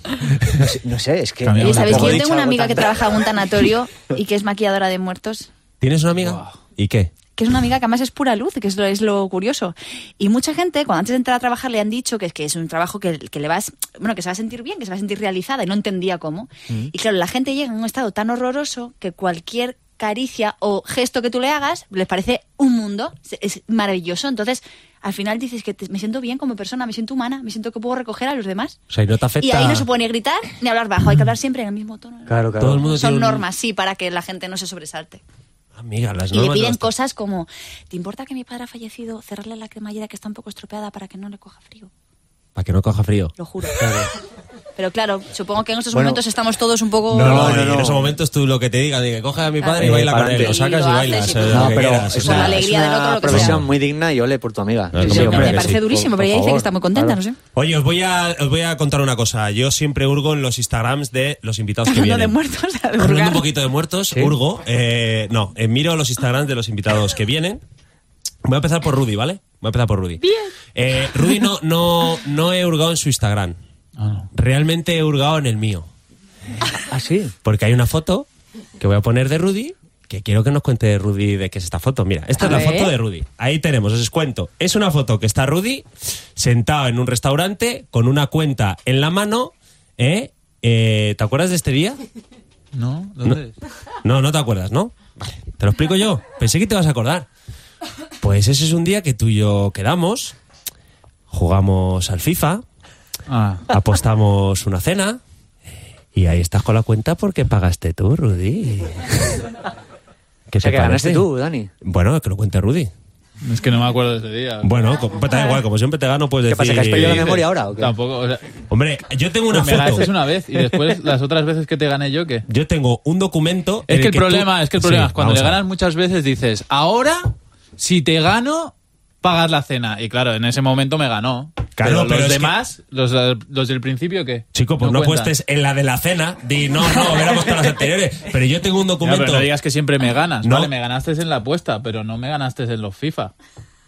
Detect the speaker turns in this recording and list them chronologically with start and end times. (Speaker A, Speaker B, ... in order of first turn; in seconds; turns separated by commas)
Speaker A: 0.5-3.0, Speaker B: 1.4-2.2, Speaker C: 1.6-5.5, Speaker D: 5.8-7.1, Speaker B: 6.2-6.5, Speaker C: 7.4-28.8, Speaker D: 28.9-29.9, Speaker C: 29.4-35.2, Speaker A: 32.3-32.8, Speaker D: 32.6-33.5, Speaker D: 35.8-36.9, Speaker C: 36.3-41.9, Speaker D: 42.6-43.3, Speaker C: 43.4-43.9, Speaker A: 43.8-44.1, Speaker C: 44.8-47.6, Speaker A: 45.9-46.2, Speaker D: 47.1-52.7, Speaker A: 47.2-48.1, Speaker C: 49.6-53.6, Speaker A: 49.8-50.5, Speaker A: 51.5-57.2, Speaker D: 53.3-53.7, Speaker D: 54.9-55.8, Speaker C: 55.0-57.4, Speaker D: 57.5-62.4, Speaker C: 61.9-63.5, Speaker D: 63.0-67.6, Speaker D: 68.5-73.6, Speaker C: 70.2-70.5, Speaker B: 74.0-74.3, Speaker D: 74.3-75.9, Speaker A: 76.9-77.3, Speaker D: 77.4-78.3, Speaker D: 78.8-92.0, Speaker C: 82.4-82.9, Speaker B: 92.7-93.5, Speaker D: 94.0-97.3, Speaker D: 98.2-100.4, Speaker D: 101.3-102.6, Speaker B: 103.3-103.7, Speaker D: 103.7-105.2, Speaker D: 106.2-109.5, Speaker D: 110.5-111.3, Speaker A: 110.6-111.7, Speaker D: 111.8-112.9, Speaker B: 113.4-114.7, Speaker D: 114.6-117.4, Speaker A: 116.5-117.9, Speaker B: 116.9-118.6, Speaker D: 118.7-120.1, Speaker B: 119.5-122.5, Speaker D: 122.5-125.6, Speaker B: 123.9-135.3, Speaker D: 131.8-132.6, Speaker D: 134.5-139.5, Speaker B: 139.0-143.3, Speaker D: 140.4-140.7